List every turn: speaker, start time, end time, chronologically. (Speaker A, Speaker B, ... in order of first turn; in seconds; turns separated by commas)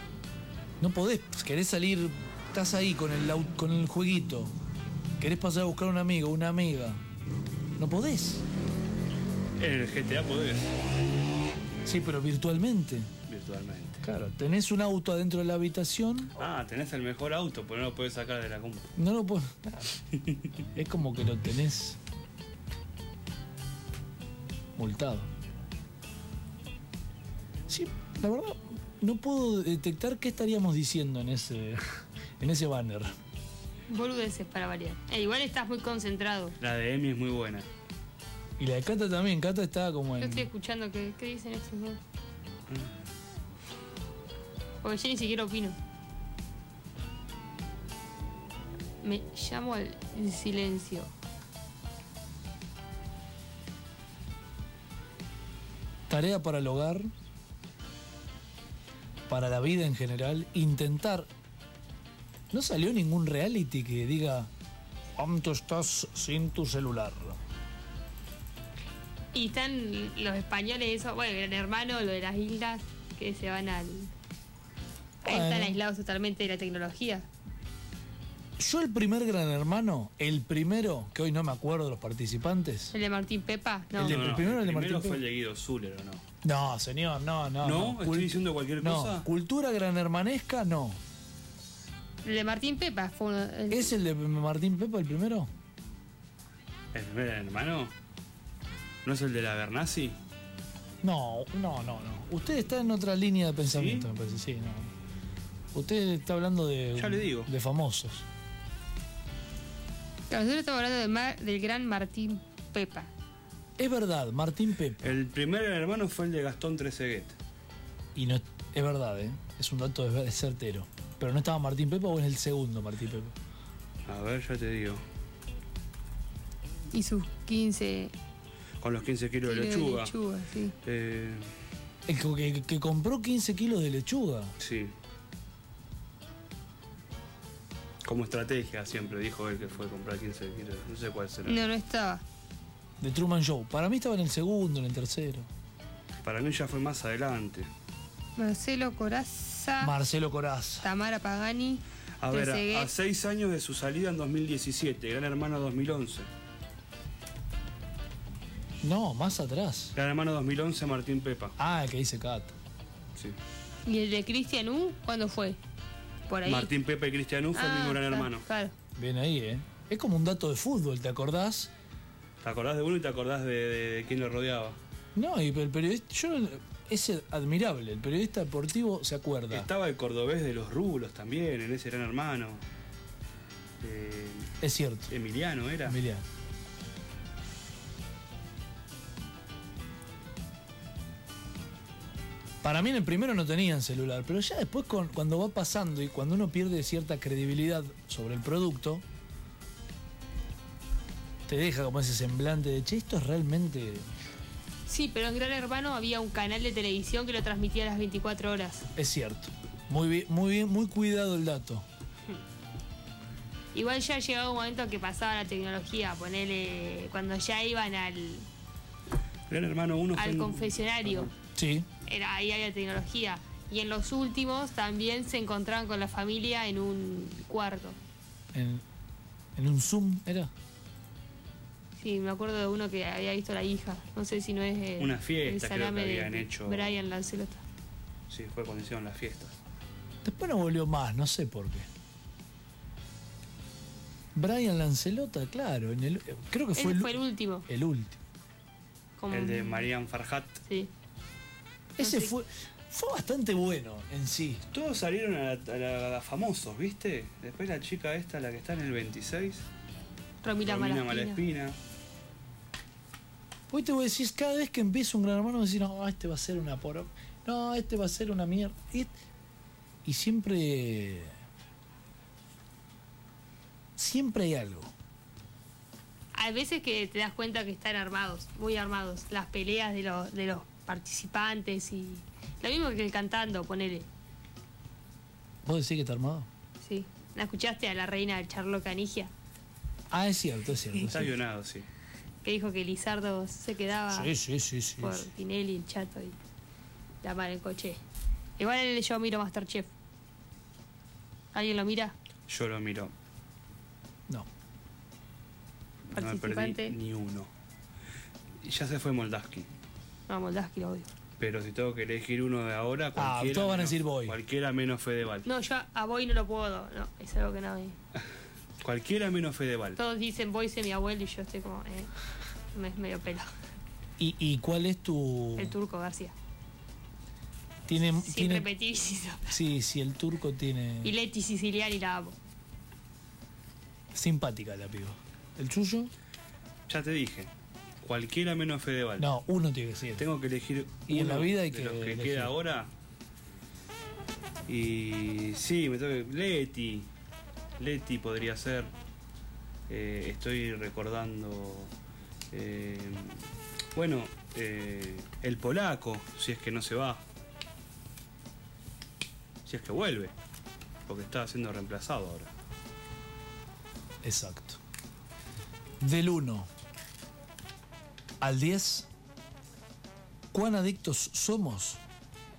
Speaker A: 0.8-4.5, Speaker A: 5.2-7.0, Speaker A: 7.8-8.4, Speaker B: 9.6-10.8, Speaker A: 11.8-13.1, Speaker B: 13.3-14.0, Speaker A: 14.0-16.4, Speaker B: 16.4-18.9, Speaker A: 18.9-19.9, Speaker B: 20.1-20.5, Speaker A: 20.7-22.0, Speaker A: 24.8-25.3, Speaker A: 27.7-33.1, Speaker C: 33.9-36.5, Speaker B: 36.6-37.7, Speaker A: 38.6-40.5, Speaker C: 40.2-42.0, Speaker B: 42.7-42.9, Speaker C: 44.8-45.8, Speaker C: 49.0-51.1, Speaker A: 56.1-57.1, Speaker A: 59.3-61.3, Speaker A: 62.5-64.5, Speaker A: 65.2-67.4, Speaker C: 69.3-74.1, Speaker A: 75.2-75.8, Speaker C: 75.2-77.3, Speaker A: 78.6-82.9, Speaker C: 82.9-84.2, Speaker A: 83.9-85.2, Speaker B: 84.0-86.2, Speaker A: 86.4-91.0, Speaker B: 87.6-89.3, Speaker C: 92.2-93.9, Speaker A: 93.7-95.5, Speaker B: 96.9-97.9, Speaker B: 99.0-100.2, Speaker A: 101.0-104.9, Speaker B: 103.7-104.1, Speaker A: 105.7-108.2, Speaker B: 107.0-107.5, Speaker C: 110.3-113.1, Speaker A: 113.8-115.2, Speaker B: 115.0-117.4, Speaker A: 118.1-123.3, Speaker B: 124.1-125.0, Speaker C: 126.9-128.1, Speaker B: 128.8-130.1, Speaker C: 129.4-130.8, Speaker B: 130.8-131.5, Speaker A: 132.1-134.6, Speaker B: 134.6-134.9, Speaker B: 138.0-141.6, Speaker C: 141.4-142.2, Speaker A: 143.0-145.5, Speaker B: 146.2-147.7, Speaker C: 148.4-149.9, Speaker A: 149.8-150.8, Speaker C: 150.8-152.9, Speaker B: 152.2-156.3, Speaker A: 158.8-159.9, Speaker B: 159.9-161.5, Speaker A: 161.6-162.6, Speaker C: 163.8-165.6, Speaker C: 166.3-166.7, Speaker B: 166.4-168.4, Speaker C: 167.5-168.7, Speaker A: 168.9-171.7, Speaker B: 172.4-174.8, Speaker A: 175.1-179.7, Speaker B: 179.5-182.6, Speaker B: 183.8-184.5, Speaker A: 184.6-185.1, Speaker B: 185.1-186.0, Speaker A: 185.8-186.2, Speaker A: 192.6-199.0, Speaker A: 201.5-204.1, Speaker C: 204.9-208.9, Speaker A: 208.9-211.8, Speaker C: 213.7-218.5, Speaker B: 219.5-220.7, Speaker C: 220.1-221.3, Speaker A: 221.6-221.9, Speaker C: 222.1-228.0, Speaker A: 228.5-228.8, Speaker A: 229.6-230.5, Speaker C: 232.0-237.6, Speaker B: 235.0-237.0, Speaker B: 238.3-239.6, Speaker A: 240.2-241.9, Speaker A: 244.3-248.2, Speaker C: 246.7-247.7, Speaker C: 249.2-249.9, Speaker B: 249.3-250.6, Speaker C: 250.7-250.9, Speaker A: 252.0-254.6, Speaker C: 252.0-252.3, Speaker B: 254.7-259.7, Speaker C: 260.4-261.4, Speaker B: 260.6-261.8, Speaker A: 263.7-269.1, Speaker A: 270.0-271.3, Speaker A: 274.0-274.9, Speaker C: 276.3-284.1, Speaker A: 285.6-286.5, Speaker C: 286.8-289.3, Speaker A: 290.1-291.4, Speaker B: 291.1-291.9, Speaker C: 292.4-294.3, Speaker A: 294.1-295.2, Speaker C: 295.0-296.4, Speaker C: 297.2-298.0, Speaker C: 298.6-299.9, Speaker C: 301.5-302.1, Speaker B: 302.5-303.1, Speaker B: 306.1-307.5, Speaker C: 306.1-306.9, Speaker B: 308.6-309.7, Speaker C: 310.3-311.1, Speaker B: 311.4-315.4, Speaker A: 313.1-314.4, Speaker C: 315.4-317.9, Speaker B: 318.8-320.0, Speaker C: 319.9-322.1, Speaker C: 322.7-323.5, Speaker A: 324.2-325.7, Speaker C: 325.6-326.3, Speaker A: 327.9-328.6, Speaker C: 328.2-329.6, Speaker A: 329.5-331.1, Speaker C: 331.0-332.4, Speaker A: 334.1-336.1, Speaker B: 336.9-337.5, Speaker B: 338.0-339.3, Speaker A: 339.2-340.2, Speaker B: 340.2-342.9, Speaker A: 341.1-342.5, Speaker B: 344.7-347.1, Speaker B: 347.8-348.9, Speaker B: 349.9-351.9, Speaker B: 352.5-353.4, Speaker B: 353.9-357.2, Speaker B: 359.6-360.3, Speaker B: 361.1-362.5, Speaker A: 364.2-364.8, Speaker A: 366.0-366.7, Speaker A: 368.4-369.1, Speaker A: 370.5-372.0